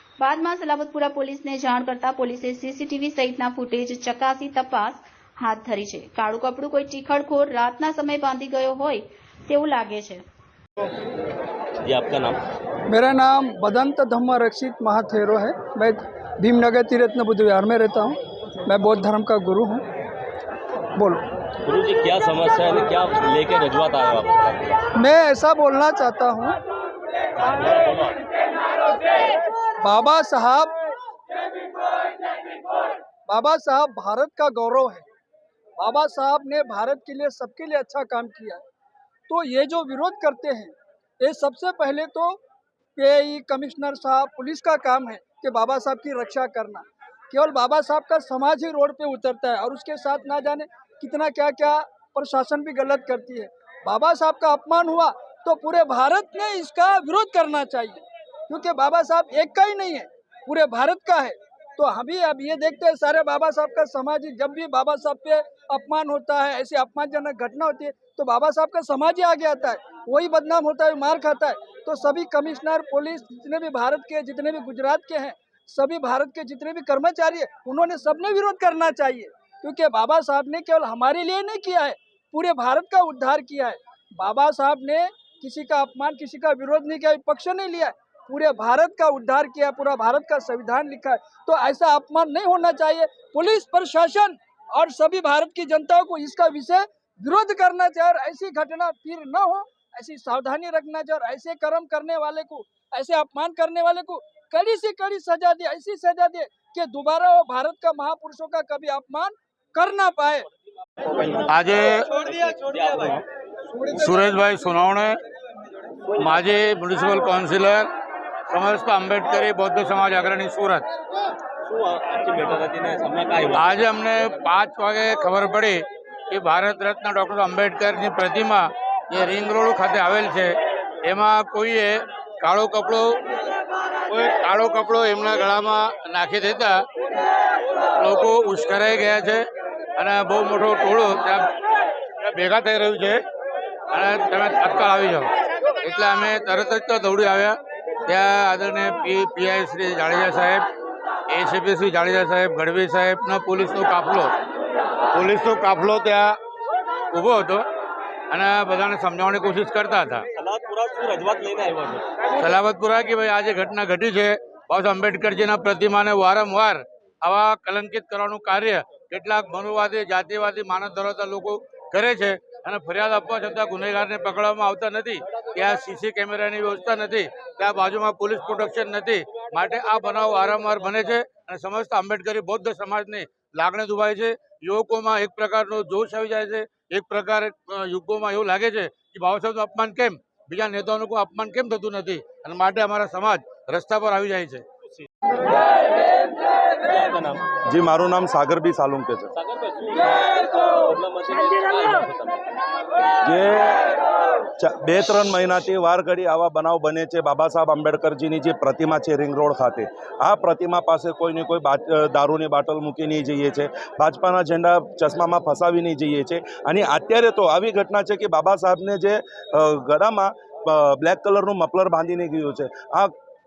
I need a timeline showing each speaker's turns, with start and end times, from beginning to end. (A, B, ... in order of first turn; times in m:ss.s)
0:00.2-0:10.2 A
0:11.8-0:12.4 B
0:12.9-0:19.9 C
0:21.0-0:21.3 C
0:21.6-0:24.8 B
0:25.0-0:26.6 C
0:27.5-0:28.2 B
0:29.8-0:30.7 C
0:33.3-0:35.1 C
0:35.8-0:38.6 C
0:39.3-0:42.4 C
0:43.0-1:50.5 C
1:51.4-1:52.2 D
1:52.3-1:53.2 B
1:53.9-1:55.2 D
1:56.1-1:57.9 D
1:58.5-2:00.8 D
2:01.6-2:03.8 B
2:03.5-2:13.2 D
2:14.1-2:16.8 D
2:18.0-2:19.4 D
2:20.0-2:21.5 D
2:22.2-2:23.2 D
2:23.9-2:25.3 D
2:25.8-2:30.6 D
2:31.3-2:34.3 D
2:35.1-2:36.4 D
2:37.1-2:37.6 D
2:38.3-2:40.2 D
2:40.3-2:42.1 B
2:42.4-3:14.6 D
3:16.8-3:17.5 B
3:17.6-3:19.3 E
3:19.3-3:22.4 B
3:23.2-3:23.9 E
3:24.6-3:43.1 E